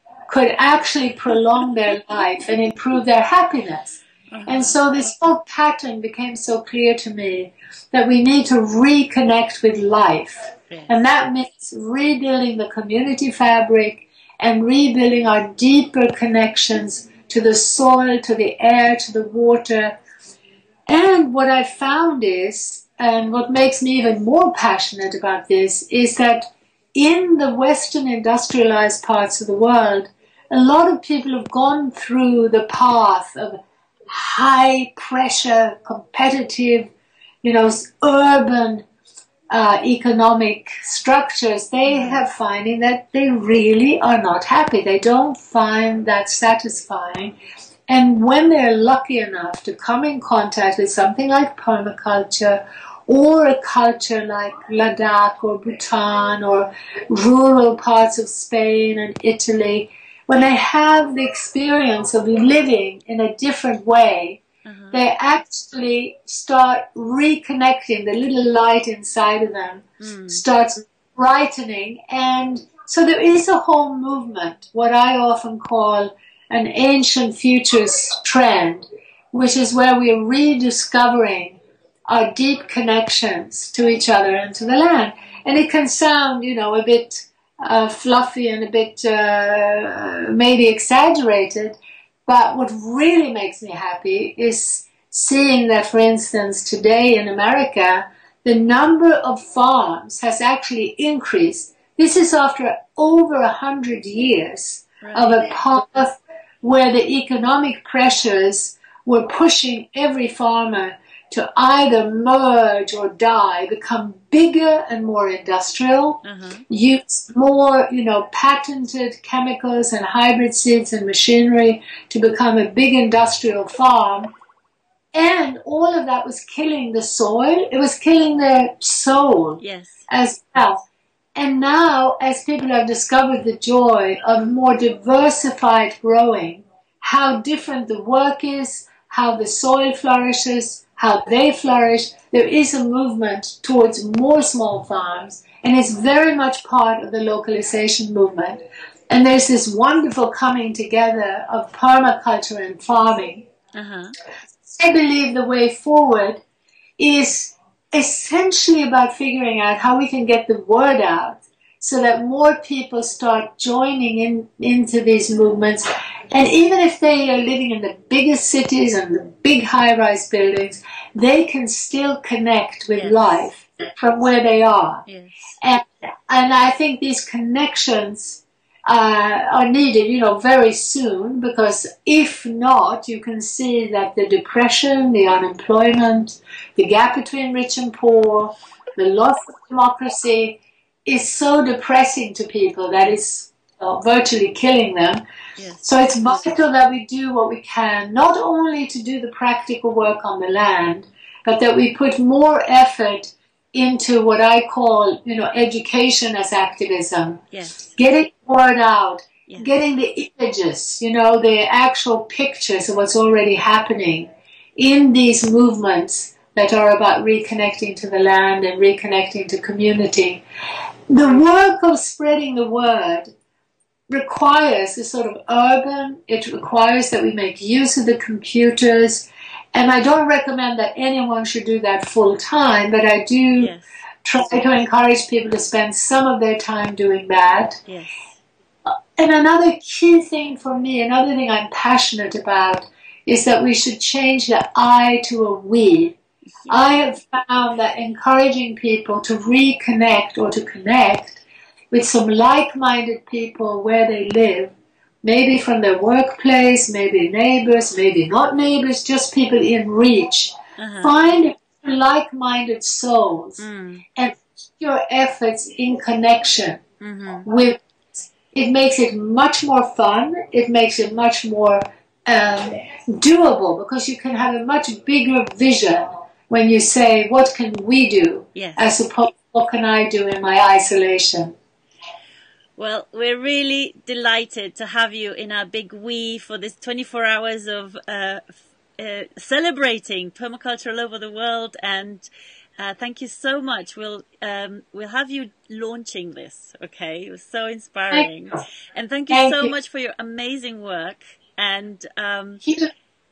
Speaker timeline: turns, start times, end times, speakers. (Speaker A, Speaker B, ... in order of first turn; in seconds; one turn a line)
Speaker A: 0.3-20.0
Speaker B: 4.3-4.8
Speaker B: 10.7-11.0
Speaker A: 20.9-36.9
Speaker A: 37.4-38.8
Speaker A: 39.5-47.3
Speaker B: 41.9-42.2
Speaker A: 47.9-64.4
Speaker B: 64.7-65.0
Speaker A: 64.9-124.3
Speaker B: 70.0-70.4
Speaker B: 105.0-105.5
Speaker B: 116.2-116.7
Speaker A: 125.1-130.8
Speaker B: 129.6-130.1
Speaker A: 131.4-153.5
Speaker B: 153.7-154.2
Speaker A: 154.7-156.4
Speaker A: 157.0-175.0
Speaker B: 172.9-173.5
Speaker B: 175.1-175.4
Speaker A: 175.6-195.2
Speaker B: 195.6-196.6
Speaker A: 195.8-207.4
Speaker B: 207.5-207.9
Speaker A: 208.0-220.4
Speaker B: 209.5-209.7
Speaker A: 221.1-223.3
Speaker A: 224.1-233.7
Speaker B: 233.6-233.9
Speaker A: 234.2-237.8
Speaker B: 237.9-238.3
Speaker A: 238.9-246.2
Speaker B: 246.6-247.1
Speaker A: 246.7-263.6
Speaker B: 260.8-261.2
Speaker B: 263.6-264.0
Speaker A: 264.2-266.8
Speaker B: 267.0-267.5
Speaker A: 267.4-267.8
Speaker A: 268.5-281.6
Speaker B: 278.6-278.9
Speaker B: 282.8-292.3
Speaker B: 292.8-302.6
Speaker A: 299.3-299.7
Speaker A: 302.6-302.9